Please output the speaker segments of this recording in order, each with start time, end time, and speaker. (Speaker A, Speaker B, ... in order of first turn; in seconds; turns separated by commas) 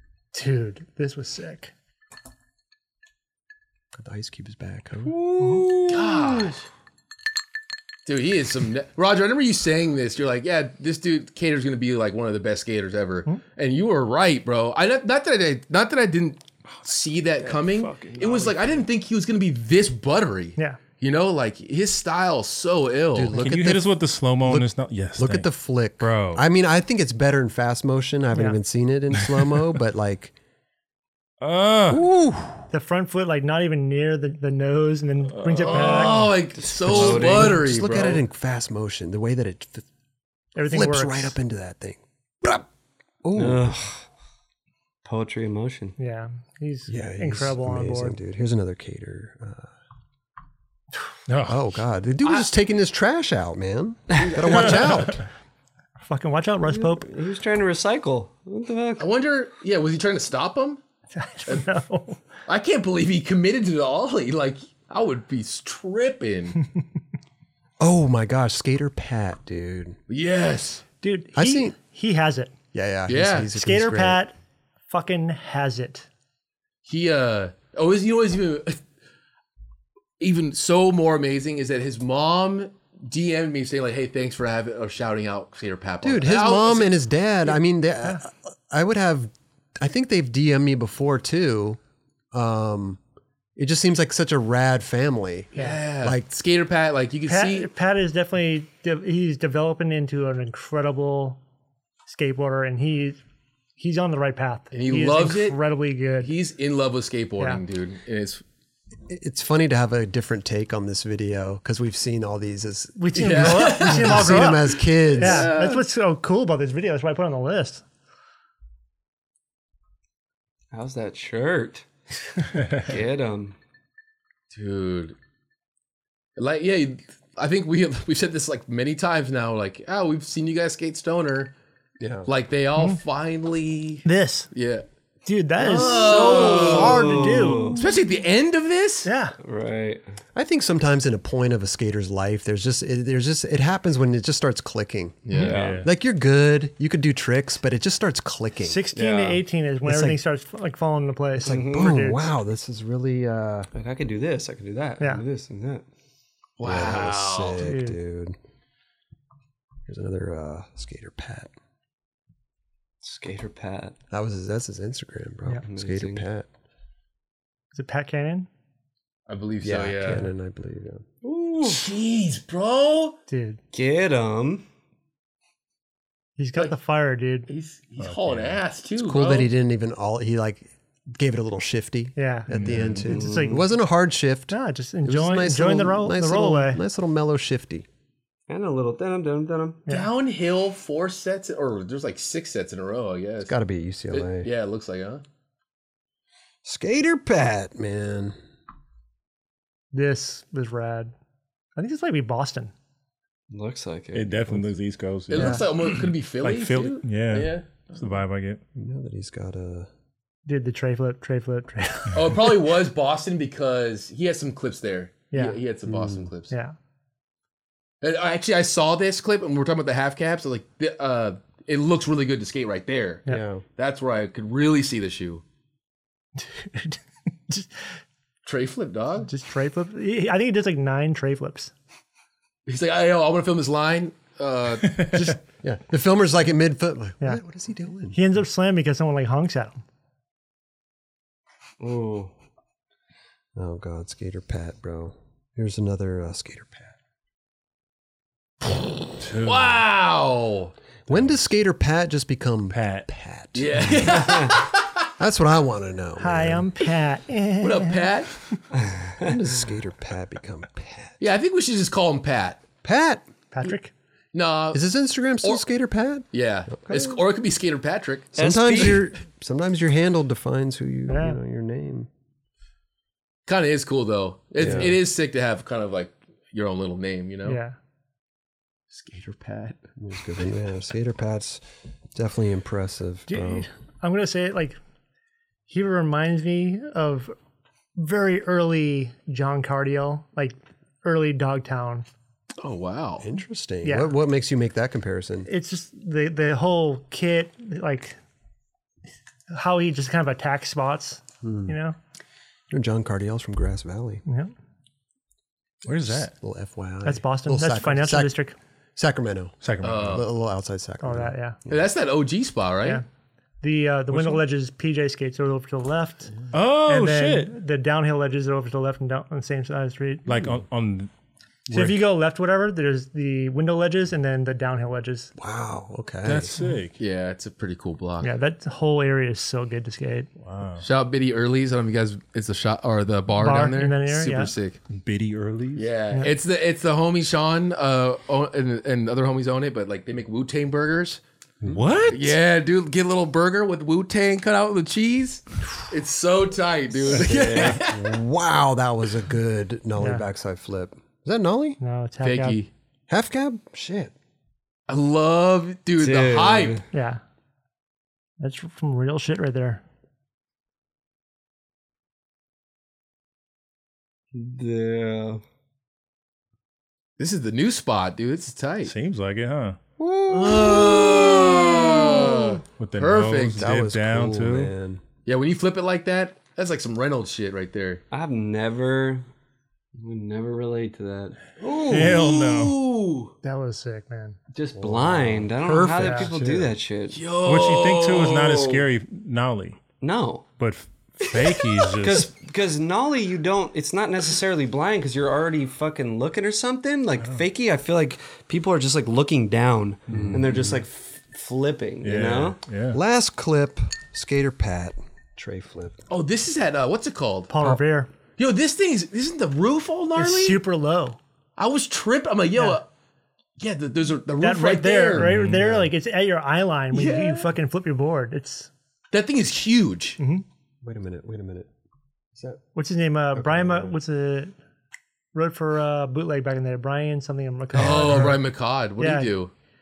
Speaker A: 0.3-1.7, Speaker B: 3.9-5.2, Speaker C: 5.1-6.5, Speaker A: 5.4-5.7, Speaker D: 5.9-6.7, Speaker D: 8.1-23.4, Speaker E: 17.5-18.5, Speaker B: 23.1-30.3, Speaker E: 23.3-25.5, Speaker E: 26.0-26.4, Speaker E: 31.4-32.0, Speaker B: 31.9-32.6, Speaker A: 32.7-36.3, Speaker E: 35.4-36.2, Speaker D: 35.6-38.2, Speaker C: 36.6-37.6, Speaker B: 36.8-39.9, Speaker A: 40.5-41.4, Speaker B: 40.6-42.7, Speaker B: 43.2-43.8, Speaker C: 43.4-44.0, Speaker C: 45.0-46.0, Speaker A: 46.0-48.2, Speaker B: 46.9-49.7, Speaker E: 51.3-51.6, Speaker B: 51.5-55.2, Speaker E: 54.5-55.2, Speaker A: 56.0-57.1, Speaker C: 56.7-59.1, Speaker D: 59.0-60.8, Speaker A: 61.1-62.2, Speaker D: 62.5-66.6, Speaker B: 67.8-70.0, Speaker D: 70.1-70.8, Speaker A: 71.0-72.5, Speaker B: 71.3-71.7, Speaker B: 72.7-74.2, Speaker D: 73.1-73.5, Speaker A: 73.5-74.3, Speaker A: 74.9-76.1, Speaker D: 76.8-78.8, Speaker D: 80.2-86.9, Speaker B: 86.0-91.8, Speaker B: 92.3-93.0, Speaker B: 93.5-96.2, Speaker A: 95.5-95.8, Speaker D: 95.5-97.7, Speaker A: 97.3-101.4, Speaker A: 102.1-103.2, Speaker A: 103.8-106.3, Speaker D: 104.7-105.6, Speaker D: 106.2-108.4, Speaker B: 109.1-115.5, Speaker A: 113.0-117.8, Speaker D: 113.1-115.8, Speaker C: 120.7-121.8, Speaker E: 122.6-122.8, Speaker C: 122.8-123.5, Speaker D: 124.5-125.2, Speaker D: 126.4-131.5, Speaker B: 132.0-132.3, Speaker D: 132.2-134.8, Speaker A: 134.0-134.5, Speaker A: 135.2-137.9, Speaker D: 135.6-139.1, Speaker C: 135.7-137.8, Speaker A: 139.0-139.3, Speaker C: 139.4-140.1, Speaker B: 140.3-148.8, Speaker D: 145.2-145.6, Speaker C: 145.3-145.8, Speaker E: 145.3-145.9, Speaker A: 148.6-152.2, Speaker C: 148.9-149.4, Speaker B: 149.8-150.2, Speaker B: 151.4-153.7, Speaker C: 151.5-152.0, Speaker C: 153.7-155.8, Speaker D: 156.6-157.7, Speaker B: 156.6-158.4, Speaker A: 157.6-158.0, Speaker B: 159.9-161.5, Speaker C: 163.0-163.9, Speaker B: 164.1-166.5, Speaker C: 165.6-166.2, Speaker A: 167.7-168.5, Speaker D: 169.3-170.3, Speaker B: 169.6-171.1, Speaker C: 171.2-171.9, Speaker D: 171.6-173.2, Speaker A: 173.3-173.6, Speaker C: 173.7-174.6, Speaker A: 176.4-177.5, Speaker D: 177.5-179.5, Speaker E: 178.0-178.6, Speaker B: 179.0-187.8, Speaker A: 182.2-183.6, Speaker E: 182.5-183.0, Speaker C: 183.0-183.6, Speaker A: 184.5-186.8, Speaker C: 188.5-189.8, Speaker D: 189.9-193.6, Speaker B: 193.4-194.5, Speaker D: 194.1-195.2, Speaker B: 196.6-198.3, Speaker A: 199.9-201.1, Speaker A: 201.8-202.7, Speaker C: 203.5-204.7, Speaker E: 204.1-208.6, Speaker D: 205.3-208.2, Speaker A: 205.4-205.6, Speaker B: 208.8-209.9, Speaker A: 210.4-212.5, Speaker D: 212.1-216.5, Speaker A: 215.3-215.6, Speaker B: 215.9-216.3, Speaker D: 218.0-225.4, Speaker B: 223.3-223.6, Speaker A: 226.4-227.8, Speaker D: 228.4-229.3, Speaker A: 229.3-231.7, Speaker D: 232.7-235.4, Speaker B: 235.6-238.2, Speaker A: 238.1-239.8, Speaker C: 241.8-242.3, Speaker B: 243.5-246.9, Speaker E: 249.2-249.8, Speaker D: 249.4-250.7, Speaker B: 251.1-254.1, Speaker E: 252.7-253.1, Speaker D: 253.5-255.1, Speaker C: 254.2-254.5, Speaker B: 255.2-256.7, Speaker A: 256.2-258.1, Speaker D: 257.6-258.3, Speaker B: 259.2-261.2, Speaker D: 261.2-262.6, Speaker B: 262.8-263.3, Speaker A: 263.5-263.9, Speaker D: 264.3-264.8, Speaker B: 264.7-267.2, Speaker D: 266.3-268.3, Speaker B: 268.3-272.1, Speaker C: 268.3-269.0, Speaker A: 271.1-271.4, Speaker D: 273.4-277.6, Speaker B: 274.6-275.0, Speaker A: 277.4-277.7, Speaker D: 278.9-279.8, Speaker B: 280.0-283.6, Speaker A: 283.3-284.8, Speaker A: 285.7-287.3, Speaker A: 288.0-292.1, Speaker D: 292.6-293.2, Speaker B: 293.2-295.5, Speaker A: 293.8-294.1, Speaker A: 295.4-298.2, Speaker A: 299.5-302.0, Speaker B: 301.4-301.7, Speaker B: 302.7-304.2, Speaker A: 304.2-304.5, Speaker E: 305.8-306.3, Speaker B: 305.9-308.4, Speaker A: 307.0-308.6, Speaker B: 308.9-311.8, Speaker E: 309.6-310.2, Speaker D: 309.8-310.2, Speaker A: 311.0-311.6, Speaker D: 311.7-313.0, Speaker A: 313.6-316.3, Speaker E: 316.5-317.5, Speaker A: 316.8-320.3, Speaker E: 320.2-321.1, Speaker A: 321.7-325.3, Speaker B: 325.4-326.5, Speaker E: 326.2-327.0, Speaker D: 327.0-328.3, Speaker A: 328.2-330.3, Speaker E: 330.4-330.9, Speaker D: 330.8-334.8, Speaker A: 333.4-334.5, Speaker E: 334.9-335.9, Speaker D: 335.8-341.2, Speaker E: 341.6-342.4, Speaker D: 342.1-348.1, Speaker C: 347.1-347.8, Speaker B: 347.1-351.8, Speaker A: 350.0-350.2, Speaker A: 351.8-352.6, Speaker D: 352.2-352.7, Speaker B: 353.1-354.1, Speaker D: 354.9-356.8, Speaker C: 356.0-356.9, Speaker A: 356.9-357.2, Speaker A: 358.4-359.8, Speaker C: 364.3-365.4, Speaker D: 367.2-368.9, Speaker E: 368.8-369.8, Speaker B: 370.0-372.6, Speaker D: 370.3-373.6, Speaker E: 372.8-374.7, Speaker B: 373.6-375.0, Speaker D: 375.2-378.0, Speaker C: 378.1-379.2, Speaker C: 379.9-381.4, Speaker B: 381.6-382.2, Speaker D: 381.9-383.3, Speaker E: 381.9-382.8, Speaker A: 383.4-384.4, Speaker C: 384.5-387.2, Speaker B: 384.7-386.7, Speaker A: 385.9-386.3, Speaker D: 387.1-388.8, Speaker E: 387.4-389.8, Speaker C: 390.0-390.5, Speaker E: 390.6-392.3, Speaker C: 391.4-402.6, Speaker E: 400.1-400.5, Speaker B: 400.1-400.8, Speaker E: 402.0-403.0, Speaker B: 402.9-406.0, Speaker D: 406.1-407.5, Speaker A: 407.5-408.1, Speaker D: 408.4-410.6, Speaker A: 410.1-411.2, Speaker D: 411.6-412.9, Speaker D: 413.6-415.4, Speaker A: 414.4-418.7, Speaker E: 415.2-415.6, Speaker B: 415.6-415.9, Speaker D: 416.9-417.5, Speaker D: 419.1-420.2, Speaker A: 420.2-420.4, Speaker B: 420.8-421.7, Speaker B: 422.3-422.6, Speaker A: 422.7-424.5, Speaker B: 423.3-424.0, Speaker A: 425.3-428.4, Speaker D: 427.7-429.5, Speaker A: 429.0-429.3